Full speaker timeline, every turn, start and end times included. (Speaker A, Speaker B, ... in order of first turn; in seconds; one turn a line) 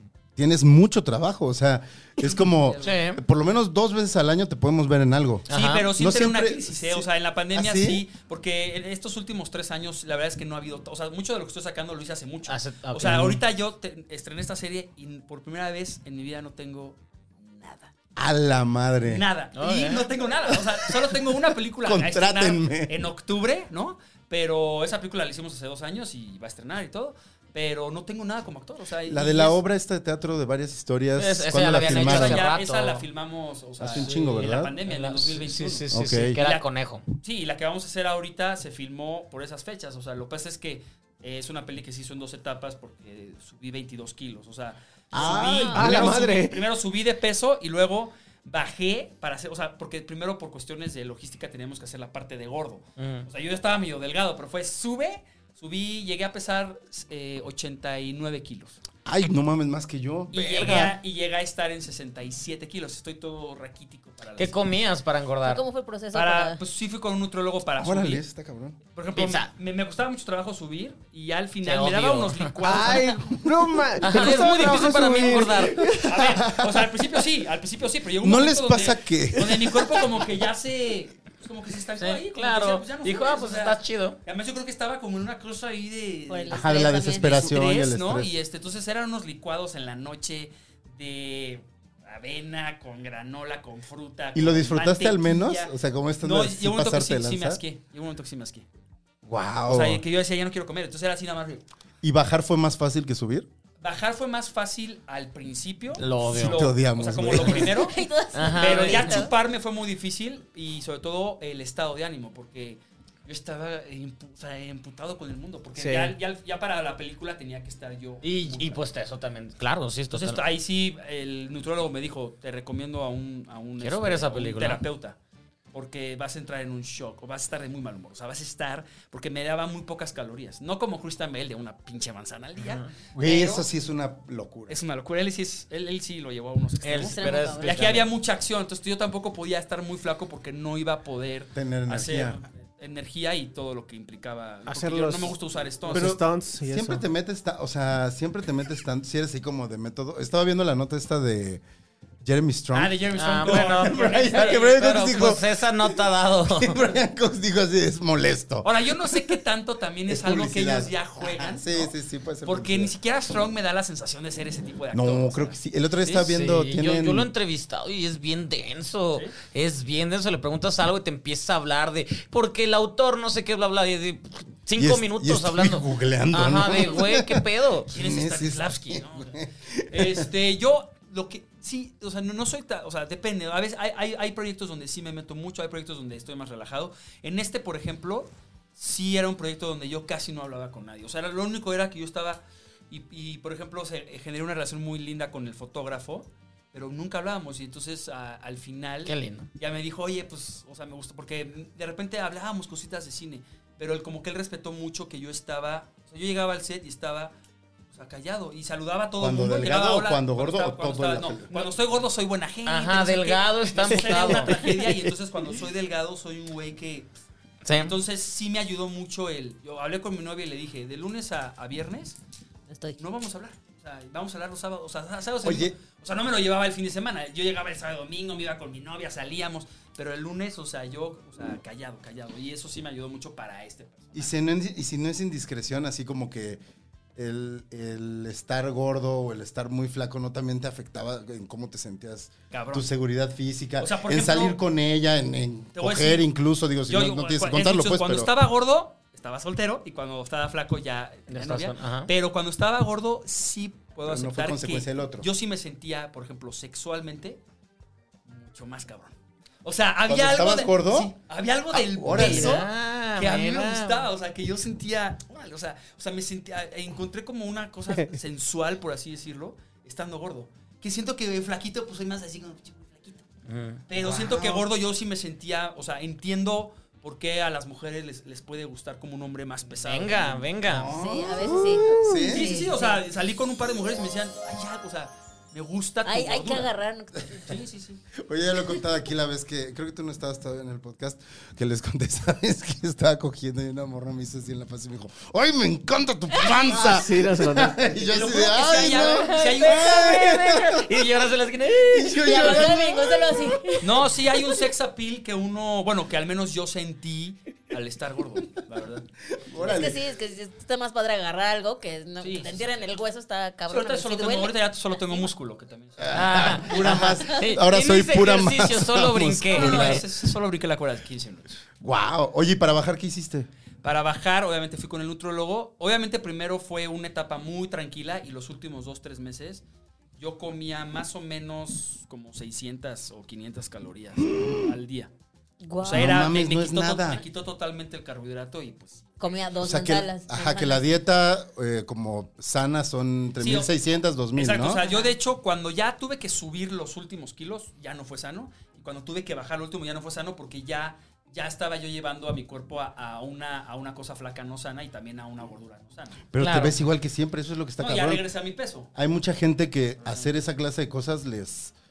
Speaker A: 0.3-8.0
Speaker B: 2.2-3.0
Speaker C: 2.8-3.2
Speaker C: 5.5-5.9
Speaker B: 5.5-17.9
Speaker C: 12.5-13.3
Speaker A: 13.0-13.4
Speaker A: 18.1-19.2
Speaker B: 19.0-29.6
Speaker C: 19.5-20.1
Speaker A: 20.7-21.1
Speaker A: 21.8-23.0
Speaker A: 29.1-32.5
Speaker C: 31.2-33.0
Speaker B: 31.8-36.6
Speaker A: 33.8-34.7
Speaker C: 33.9-37.1
Speaker A: 35.9-36.4
Speaker B: 37.2-58.8
Speaker D: 45.1-46.6
Speaker A: 45.1-46.1
Speaker E: 45.4-45.8
Speaker C: 53.0-53.3
Speaker A: 59.0-60.9
Speaker B: 60.3-64.5
Speaker C: 64.4-65.6
Speaker E: 65.4-66.6
Speaker B: 66.1-68.2
Speaker A: 67.8-68.8
Speaker B: 68.8-73.5
Speaker C: 69.1-69.5
Speaker C: 71.6-73.0
Speaker D: 72.6-76.8
Speaker C: 74.0-75.9
Speaker B: 74.0-98.7
Speaker A: 78.2-80.2
Speaker C: 82.0-84.2
Speaker E: 86.3-87.4
Speaker A: 86.5-88.3
Speaker A: 94.3-97.6
Speaker A: 99.2-100.0
Speaker B: 99.7-101.6
Speaker A: 102.0-103.5
Speaker B: 103.8-118.8
Speaker C: 106.0-106.7
Speaker A: 106.3-107.7
Speaker E: 107.7-109.3
Speaker C: 108.3-109.2
Speaker D: 115.8-116.1
Speaker C: 118.2-120.4
Speaker B: 120.1-125.2
Speaker C: 123.8-124.8
Speaker B: 125.7-133.7
Speaker C: 132.6-132.9
Speaker A: 133.2-134.8
Speaker B: 134.7-146.2
Speaker C: 136.8-138.1
Speaker E: 137.0-137.9
Speaker A: 141.5-142.4
Speaker D: 144.7-147.0
Speaker A: 145.9-151.6
Speaker A: 152.2-159.4
Speaker B: 152.7-154.8
Speaker C: 153.1-156.9
Speaker B: 158.6-161.9
Speaker A: 160.1-162.9
Speaker B: 162.4-165.5
Speaker A: 164.9-167.3
Speaker C: 166.2-177.9
Speaker A: 174.8-180.3
Speaker B: 177.9-207.3
Speaker C: 199.1-199.5
Speaker B: 207.9-217.1
Speaker A: 209.2-211.7
Speaker C: 212.7-214.8
Speaker C: 217.6-217.9
Speaker B: 217.7-222.2
Speaker E: 222.7-223.0
Speaker B: 223.0-234.3
Speaker A: 225.4-225.7
Speaker A: 234.1-236.6
Speaker A: 237.2-248.3
Speaker B: 242.5-242.8
Speaker B: 243.8-244.6
Speaker B: 245.7-246.2
Speaker B: 246.9-257.4
Speaker C: 251.3-252.1
Speaker A: 254.0-255.3
Speaker B: 258.3-273.2
Speaker A: 260.1-261.1
Speaker A: 261.7-262.6
Speaker C: 262.1-264.1
Speaker C: 273.5-273.8
Speaker B: 273.9-280.5
Speaker A: 274.0-274.6
Speaker C: 279.8-280.9
Speaker A: 280.7-282.7
Speaker E: 280.9-283.0
Speaker D: 281.9-282.3
Speaker B: 282.3-286.7
Speaker E: 286.0-287.5
Speaker B: 287.3-288.0
Speaker A: 288.1-301.0
Speaker D: 296.6-297.8
Speaker B: 298.1-300.3
Speaker E: 299.0-300.3
Speaker C: 299.6-302.6
Speaker A: 301.9-303.6
Speaker E: 302.1-304.1
Speaker B: 303.8-309.1
Speaker A: 309.4-310.0
Speaker E: 309.6-315.3
Speaker B: 312.2-312.6
Speaker B: 313.7-317.2
Speaker A: 316.0-320.0
Speaker C: 316.1-320.0
Speaker B: 319.5-321.6
Speaker A: 321.8-323.5
Speaker B: 323.8-329.6
Speaker B: 330.2-335.1
Speaker A: 334.3-334.6
Speaker E: 335.6-336.3
Speaker B: 335.8-339.1
Speaker A: 335.8-337.2
Speaker E: 339.2-340.8
Speaker A: 339.6-344.8
Speaker B: 343.4-343.7
Speaker B: 344.4-356.3
Speaker E: 344.8-345.2
Speaker A: 356.3-358.2
Speaker C: 356.4-356.8
Speaker B: 357.8-358.9
Speaker A: 358.9-361.7